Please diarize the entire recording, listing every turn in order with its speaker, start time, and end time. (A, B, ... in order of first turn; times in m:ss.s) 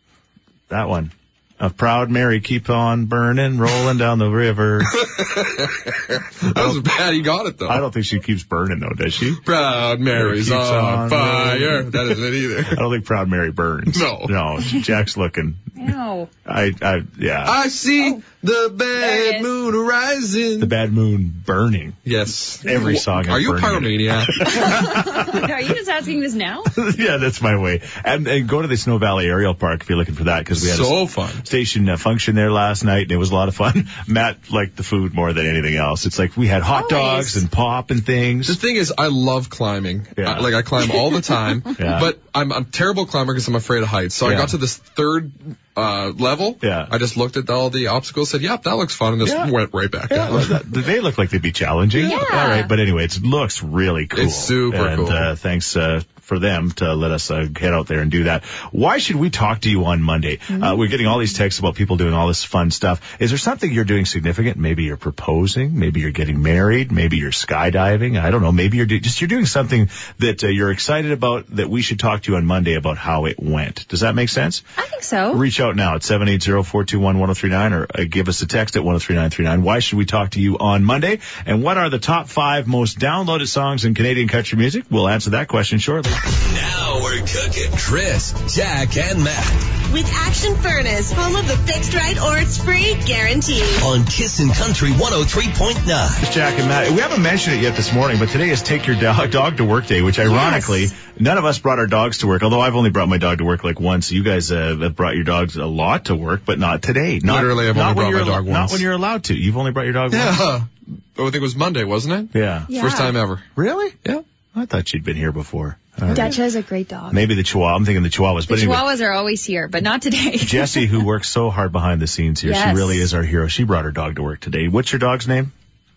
0:00.7-0:05.1 A
0:05.0-0:07.8 B
0:06.5-0:06.8 A
0:07.7-0:09.4 A
0:09.4-0:12.8 B
0:10.1-0:12.2 A
0:12.7-0:15.8 A
0:13.9-0:14.4 B
0:15.8-0:16.3 C
0:16.4-0:17.6 A
0:17.4-0:20.7 B
0:18.0-0:18.2 C
0:19.0-0:19.5 C
0:20.6-0:22.0 A
0:22.0-0:24.7 B
0:22.6-0:25.5 A
0:24.6-0:26.7 C
0:26.7-0:38.6 A
0:30.5-0:31.4 B
0:36.7-0:37.4 C
0:38.4-0:50.6 B
0:40.2-0:40.5 A
0:41.8-0:42.1 A
0:44.2-0:44.5 A
0:46.6-0:46.9 A
0:49.2-0:49.5 A
0:50.1-1:14.6 A
0:52.0-0:52.7 C
0:54.1-0:55.3 B
1:00.5-1:00.8 C
1:14.8-1:15.4 C
1:15.3-1:26.1 A
1:26.4-1:29.6 D
1:29.9-1:33.8 E
1:33.8-1:36.2 D
1:36.2-1:50.5 A
1:40.3-1:40.9 C
1:47.2-1:48.8 B
1:50.1-1:53.4 B
1:52.3-1:52.7 A
1:52.7-1:53.2 C
1:53.6-1:54.0 A
1:54.5-1:56.4 A
1:56.0-1:57.2 C
1:57.1-1:58.9 A
1:58.5-2:01.0 C
2:00.4-2:05.5 A
2:02.4-2:03.1 C